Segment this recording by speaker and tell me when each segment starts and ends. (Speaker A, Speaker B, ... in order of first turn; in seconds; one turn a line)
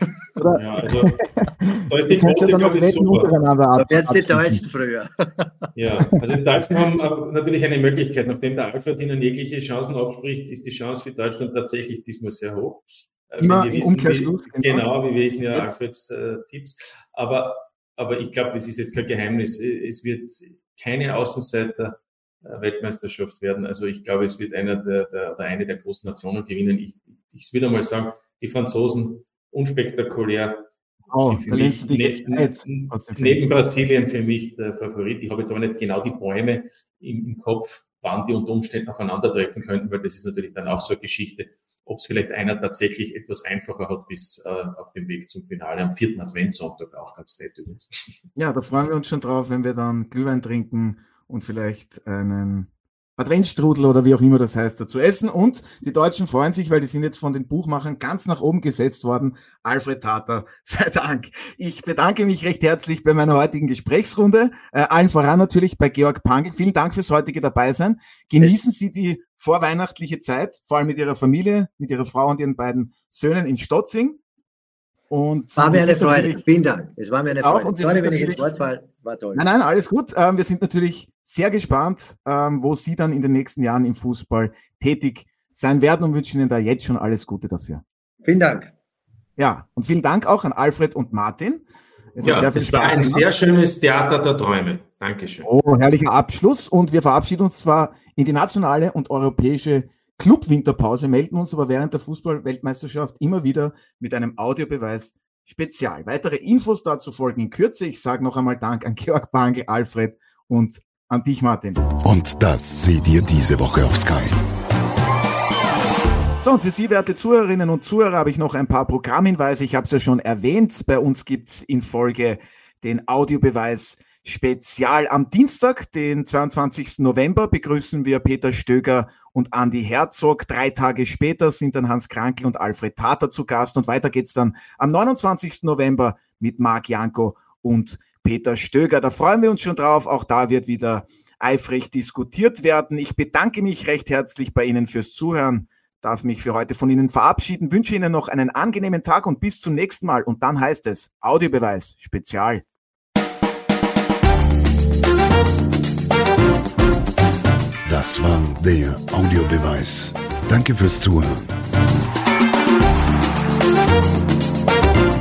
Speaker A: 0.4-4.6
Speaker B: 0.5-1.2
Speaker B: 1.9-3.3
Speaker C: 3.7-5.5
Speaker B: 5.7-47.9
Speaker A: 13.4-14.8
Speaker A: 31.1-33.4
Speaker A: 48.4-74.2
Speaker A: 75.1-76.4
Speaker C: 75.6-79.4
Speaker A: 77.3-78.4
Speaker A: 79.3-87.8
Speaker C: 88.2-88.7
Speaker A: 89.4-91.6
Speaker A: 92.1-93.2
Speaker B: 92.2-95.5
Speaker A: 95.4-111.8
Speaker D: 112.0-114.4
Speaker A: 116.4-152.6
Speaker D: 157.9-161.5